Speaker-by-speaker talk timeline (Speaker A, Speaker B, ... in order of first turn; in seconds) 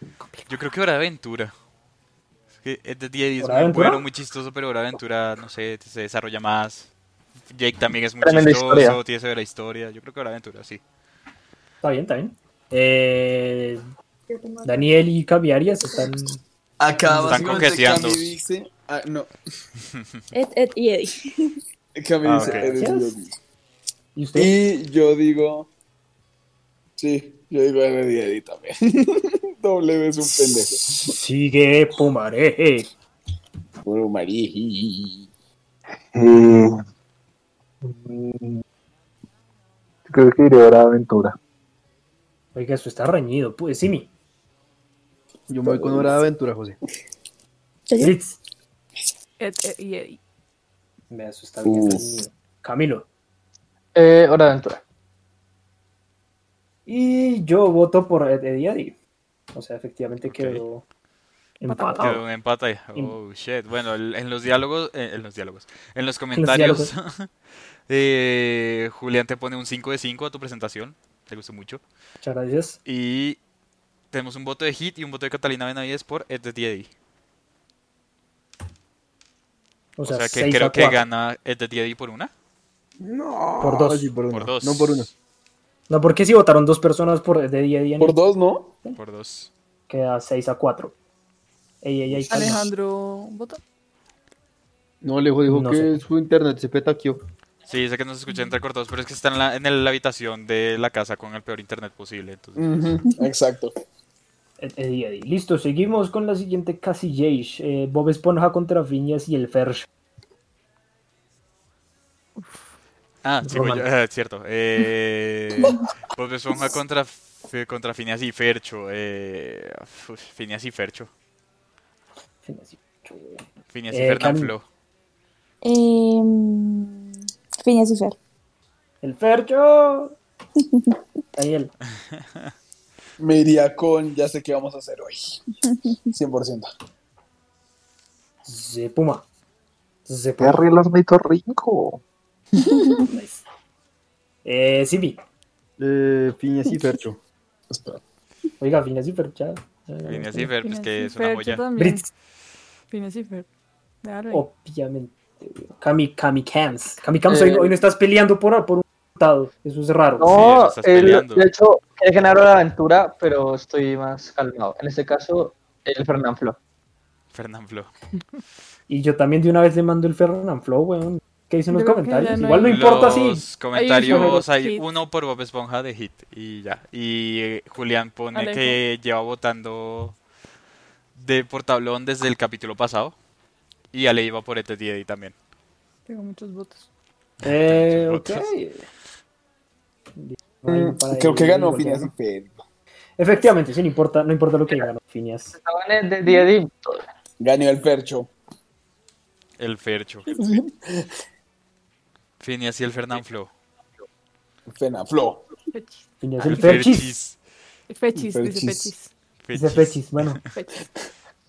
Speaker A: 0.5-1.5, 2.6-6.9, 7.5-10.8, 17.1-18.3, 22.2-22.7, 60.2-60.6, 61.9-67.3, 67.9-71.8, 72.8-73.4, 74.1-76.9, 80.0-82.3, 84.3-85.1, 89.0-89.5, 97.7-102.7, 113.2-121.1, 123.7-124.6, 150.1-151.6, 160.3-161.4, 167.3-167.9, 172.6-180.2, 181.2-183.1, 183.9-185.3, 187.4-188.5, 199.6-200.3, 202.4-203.5, 206.4-207.4, 209.4-210.3
Speaker B: 3.4-4.0, 11.8-13.8, 14.6-16.4, 22.4-23.1, 24.1-24.5, 30.3-32.9, 42.5-44.1, 48.0-48.4, 51.1-53.0, 56.9-58.9, 59.5-60.8, 61.6-62.2, 66.3-66.9, 72.2-72.8, 80.0-81.0, 83.6-84.1, 85.9-88.2, 89.9-90.9, 91.8-92.7, 95.5-96.0, 104.6-109.9, 113.4-113.8, 122.4-124.5, 129.0-130.2, 131.3-131.7, 138.4-139.2, 140.1-140.7, 143.0-143.4, 144.4-145.2, 148.6-150.5, 151.8-152.1, 154.3-160.3, 168.9-173.4, 174.0-174.4, 187.4-188.8, 190.2-192.1, 193.2-195.5, 206.2-207.1, 209.5-210.4
Speaker C: 8.2-9.0, 53.9-54.8, 157.3-157.7, 160.2-166.6, 195.5-197.0
Speaker D: 14.3-14.7, 20.3-21.5, 125.6-128.2
Speaker E: 16.8-19.3, 21.9-23.3, 24.3-25.7, 27.0-31.1, 33.8-35.3, 45.6-46.2, 51.6-52.2, 88.0-88.7, 102.5-103.7, 133.2-135.4, 136.1-136.7, 147.7-148.0, 190.7-192.6, 197.4-198.3, 200.3-201.1, 204.7-205.4, 208.1-208.9
Speaker F: 36.1-36.8, 37.8-38.6, 40.0-41.4, 140.4-142.0
Speaker G: 45.5-46.8, 83.0-85.1, 95.0-97.2, 145.8-147.2
Speaker H: 49.4-50.2, 92.3-93.6, 112.4-112.7, 150.6-152.1, 152.9-153.4, 154.0-154.4, 171.7-173.2, 173.7-174.8, 178.3-178.8, 186.1-186.9, 205.7-206.9, 207.9-209.1, 210.5-210.8